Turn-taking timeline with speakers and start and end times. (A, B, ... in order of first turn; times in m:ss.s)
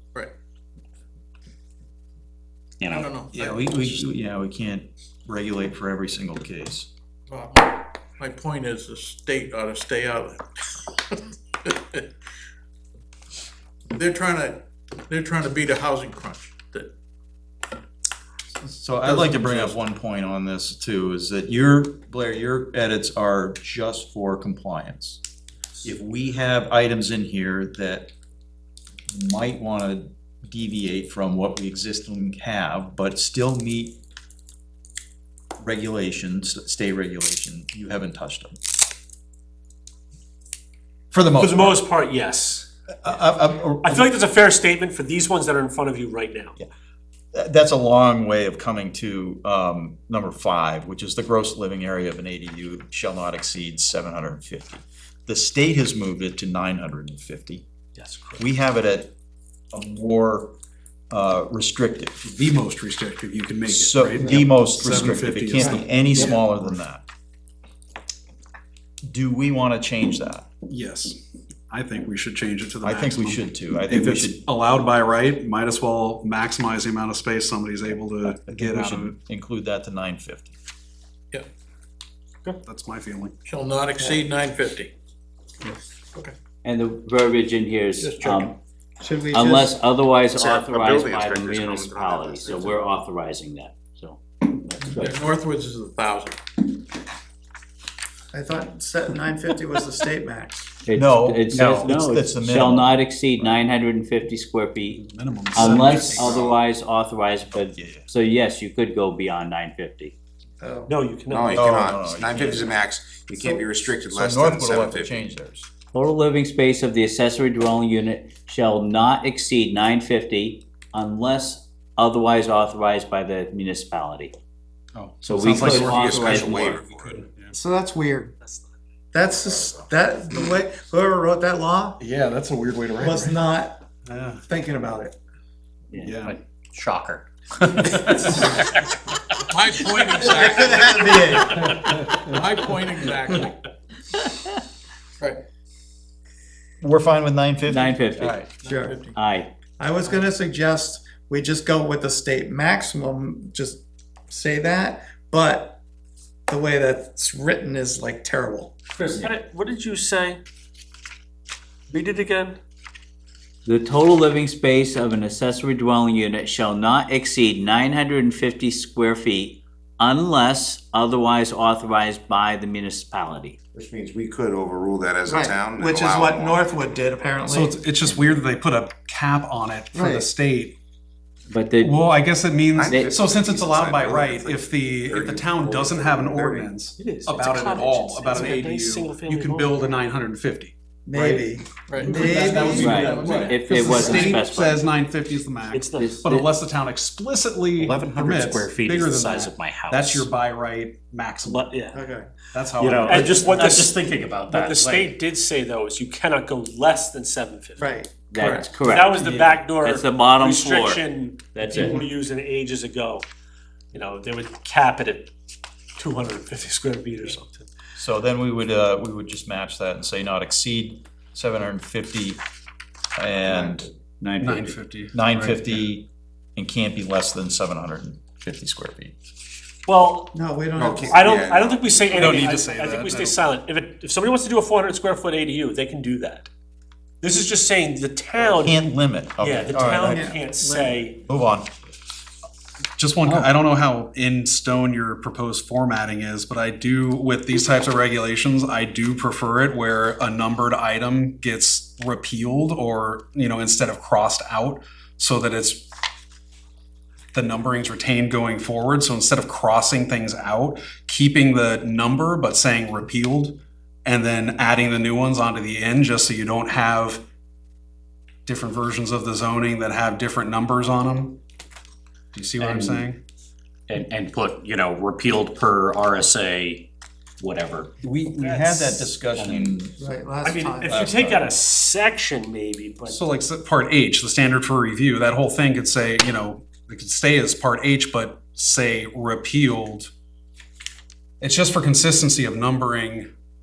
0:02.8-0:03.1 A
0:02.9-0:03.9 B
0:03.3-0:06.9 C
0:07.3-0:12.0 B
0:13.9-0:16.9 B
0:18.6-0:25.2 C
0:19.0-0:19.8 D
0:25.8-0:28.1 C
0:29.1-0:34.0 C
0:35.6-0:38.6 C
0:41.1-0:41.8 C
0:41.4-0:42.7 E
0:43.0-0:44.1 C
0:43.8-0:46.5 E
0:47.3-0:57.6 C
0:58.0-0:58.4 E
0:58.4-0:59.1 C
0:59.7-1:00.5 C
1:01.1-1:02.2 C
1:02.2-1:06.7 D
1:03.6-1:07.0 C
1:04.9-1:06.3 F
1:09.0-1:10.5 C
1:10.7-1:11.2 D
1:11.7-1:19.1 D
1:12.8-1:14.4 C
1:18.4-1:20.6 C
1:22.6-1:23.3 D
1:23.4-1:24.9 B
1:26.6-1:28.5 G
1:28.0-1:28.5 B
1:29.0-1:29.7 F
1:29.3-1:35.2 G
1:30.3-1:32.8 H
1:34.8-1:36.4 B
1:38.3-1:40.7 F
1:40.8-1:45.0 G
1:40.9-1:43.6 C
1:44.9-1:46.4 D
1:45.5-1:50.1 G
1:45.7-1:46.6 H
1:47.8-1:48.1 C
1:50.6-1:50.9 F
1:50.9-1:51.7 E
1:51.3-1:55.2 H
1:51.5-1:52.8 C
1:53.4-1:53.6 F
1:54.1-1:55.7 C
1:55.9-2:04.3 G
2:04.9-2:07.6 D
2:05.2-2:06.6 G
2:05.4-2:07.2 H
2:07.5-2:08.3 F
2:09.1-2:12.0 F
2:12.0-2:13.4 D
2:13.0-2:13.8 F
2:14.0-2:14.4 D
2:14.5-2:15.1 F
2:15.9-2:16.4 D
2:16.0-2:17.3 A
2:17.6-2:18.6 D
2:19.4-2:21.6 B
2:20.2-2:21.3 F
2:20.2-2:21.7 C
2:21.7-2:22.2 D
2:22.2-2:23.6 B
2:26.8-2:28.4 C
2:27.7-2:28.4 G
2:28.5-2:29.1 B
2:28.6-2:29.0 F
2:29.1-2:29.5 G
2:29.8-2:35.8 F
2:36.5-2:38.7 F
2:39.0-2:40.4 E
2:41.9-2:42.6 E
2:43.6-2:53.6 G
2:53.7-2:56.7 H
2:55.2-2:57.8 F
2:57.4-3:00.7 D
2:59.9-3:00.3 F
3:01.5-3:01.9 G
3:01.8-3:11.4 D
3:02.7-3:06.7 H
3:07.0-3:09.9 E
3:11.0-3:14.4 F
3:11.9-3:13.6 B
3:12.0-3:21.7 D
3:12.8-3:14.8 G
3:15.7-3:16.2 E
3:16.0-3:16.5 G
3:17.8-3:20.3 A
3:21.4-3:22.0 E
3:21.9-3:22.3 F
3:22.5-3:23.9 D
3:22.8-3:25.1 A
3:23.1-3:23.9 E
3:24.5-3:33.2 E
3:27.8-3:28.7 F
3:28.3-3:29.2 G
3:29.2-3:29.5 C
3:29.8-3:32.0 G
3:31.7-3:32.0 F
3:33.9-3:35.3 E
3:36.0-3:37.7 E
3:38.0-3:42.4 C
3:43.2-3:43.9 C
3:43.4-3:43.9 H
3:44.2-3:44.8 G
3:44.4-3:45.9 D
3:45.1-3:49.1 C
3:49.9-3:50.3 E
3:50.3-3:51.2 F
3:50.8-3:52.4 H
3:51.0-3:56.5 E
3:52.1-3:53.4 D
3:57.2-3:58.8 E
3:58.4-4:00.3 C
3:59.4-4:01.2 E
4:00.0-4:00.4 F
4:01.2-4:01.7 C
4:03.0-4:15.9 D
4:17.3-4:27.2 D
4:28.4-4:31.4 D
4:32.3-4:33.2 D
4:32.6-4:33.1 A
4:33.9-4:36.9 A
4:37.4-4:37.9 A
4:38.0-4:39.9 C
4:38.4-4:39.1 E
4:39.4-4:39.7 A
4:40.0-4:41.1 F
4:40.4-4:43.2 E
4:40.8-4:41.5 C
4:43.0-4:50.1 D
4:51.4-4:53.3 D